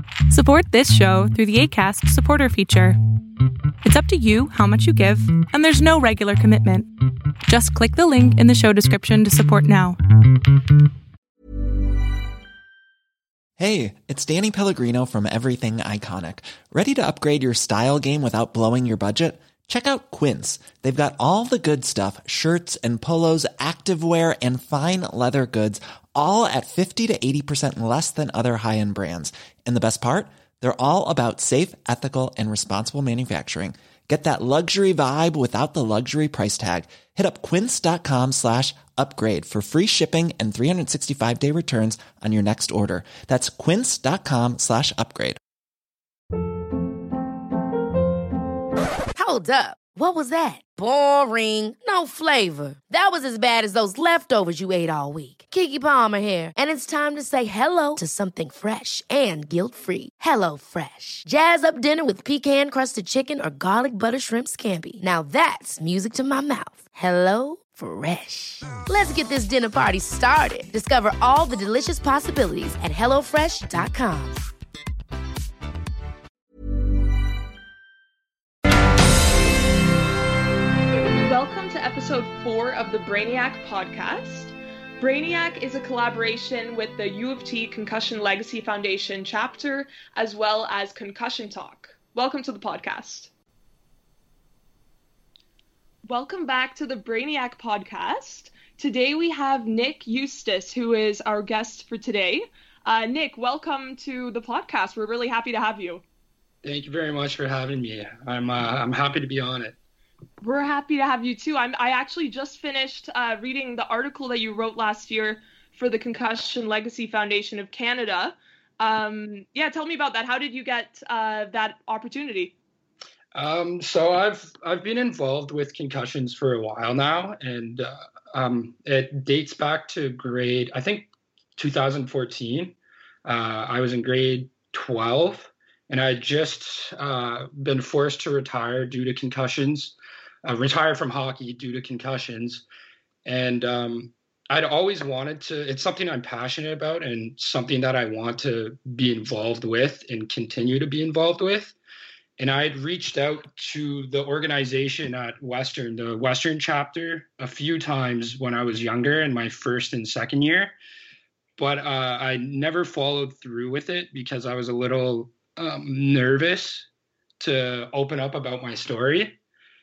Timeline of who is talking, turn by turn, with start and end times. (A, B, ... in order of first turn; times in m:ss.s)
0:00.3-0:03.0 A
0:03.8-0:06.9 A
0:07.5-0:10.0 A
0:13.6-0:45.4 B
0:49.1-1:14.4 C
1:21.2-1:33.3 D
1:36.1-1:46.0 D
1:46.6-1:49.8 E
1:50.4-2:02.6 D
2:03.3-2:22.6 E
2:23.2-2:31.8 E
2:32.4-2:40.7 E
2:41.6-2:46.9 E
2:47.4-2:49.4 E